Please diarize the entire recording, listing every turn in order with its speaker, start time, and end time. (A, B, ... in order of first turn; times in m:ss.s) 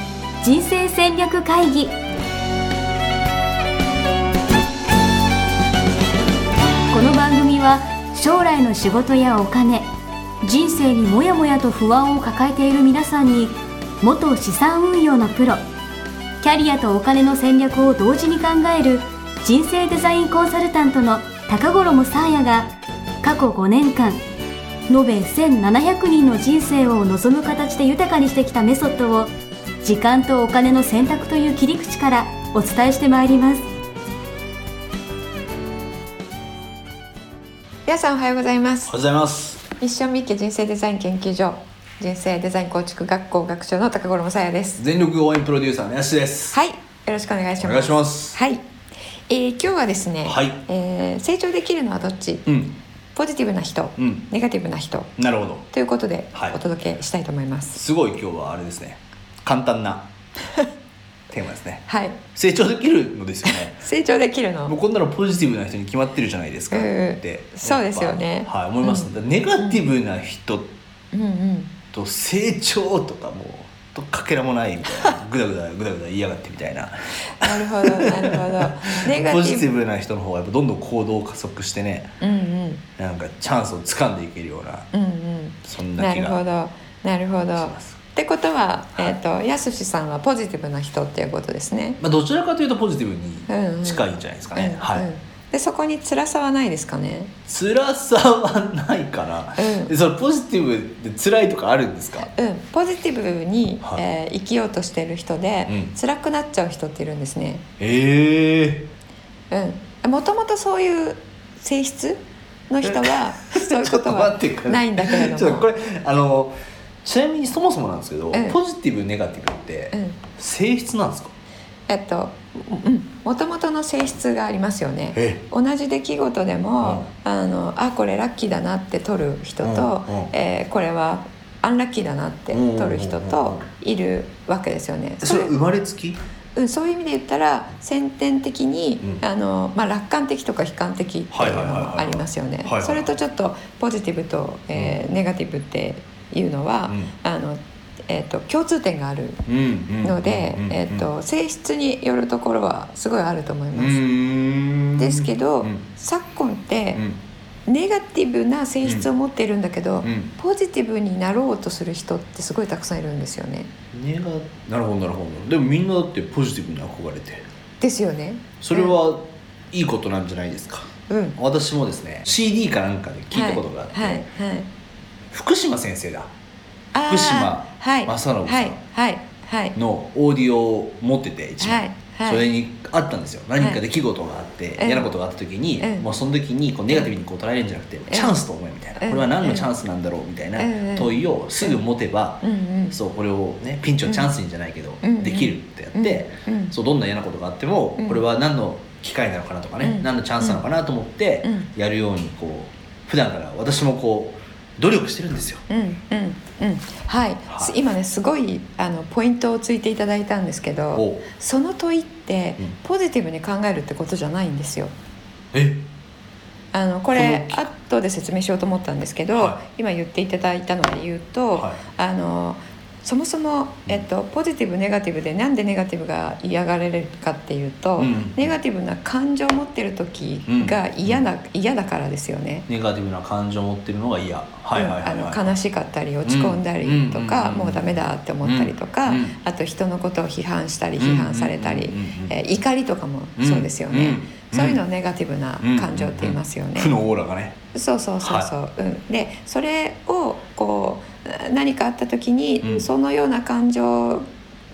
0:00.4-0:02.0 A
0:06.9-0:09.9 A
0:10.4-0:15.6 A
0:16.4-0:24.2 A
0:24.9-0:29.3 A
0:29.8-0:33.6 A
0:37.8-0:38.9 B
0:38.9-0:39.6 C
0:39.8-0:44.8 B
0:44.8-0:46.6 C
0:46.5-0:48.6 B
0:47.6-0:48.4 C
0:49.3-0:52.5 B
0:50.2-0:50.6 C
0:52.5-0:52.7 C
0:53.1-0:55.1 B
0:54.0-0:54.2 C
0:55.2-0:55.6 C
0:55.7-0:57.8 B
0:56.3-0:56.6 C
0:57.7-1:00.1 C
1:01.3-1:03.8 C
1:01.9-1:02.2 B
1:03.4-1:04.7 B
1:04.6-1:10.7 C
1:06.7-1:09.8 B
1:11.1-1:11.7 B
1:11.9-1:22.1 C
1:17.4-1:19.7 B
1:22.2-1:22.8 B
1:23.0-1:24.9 C
1:24.9-1:32.0 B
1:25.6-1:26.4 C
1:27.5-1:28.0 C
1:32.0-1:35.1 C
1:33.5-1:37.3 B
1:37.5-1:42.3 C
1:39.6-1:39.9 B
1:42.2-1:47.6 B
1:45.7-1:45.9 C
1:47.8-1:48.9 C
1:49.5-1:55.7 B
1:52.8-2:01.3 C
1:58.3-1:58.6 B
1:59.9-2:00.2 B
2:01.9-2:15.6 B
2:05.1-2:05.4 C
2:06.8-2:07.1 C
2:09.6-2:10.3 C
2:12.5-2:13.7 C
2:15.2-2:16.2 C
2:16.5-2:29.4 B
2:21.3-2:23.1 C
2:24.7-2:25.0 C
2:26.9-2:27.1 C
2:29.4-2:31.1 C
2:30.0-2:34.1 B
2:33.7-2:35.8 C
2:35.0-2:37.0 B
2:37.6-2:43.7 B
2:40.0-2:40.3 C
2:43.9-2:47.4 C
2:47.8-2:49.0 B
2:48.6-2:54.3 C
2:51.1-2:51.4 B
2:53.3-2:54.7 B
2:55.3-2:56.3 C
2:56.9-2:59.8 B
2:57.0-2:58.8 C
2:59.7-3:25.6 C
3:01.6-3:02.4 B
3:04.8-3:05.1 B
3:05.8-3:06.1 B
3:08.1-3:08.4 B
3:09.0-3:09.7 B
3:10.6-3:11.8 B
3:12.4-3:13.0 B
3:14.0-3:14.3 B
3:15.0-3:16.7 B
3:19.8-3:20.6 B
3:21.4-3:21.7 B
3:25.7-3:34.9 B
3:27.5-3:27.8 C
3:30.9-3:31.2 C
3:35.5-3:35.9 C
3:36.7-3:52.6 B
3:37.1-3:37.7 C
3:39.3-3:39.6 C
3:41.5-3:41.8 C
3:48.0-3:48.5 C
3:50.5-3:51.2 C
3:52.7-3:55.6 C
3:54.7-4:07.0 B
3:56.2-3:59.4 C
4:01.0-4:02.4 C
4:03.4-4:04.8 C
4:05.6-4:07.6 C
4:07.7-4:14.3 B
4:08.2-4:08.5 C
4:12.6-4:12.9 C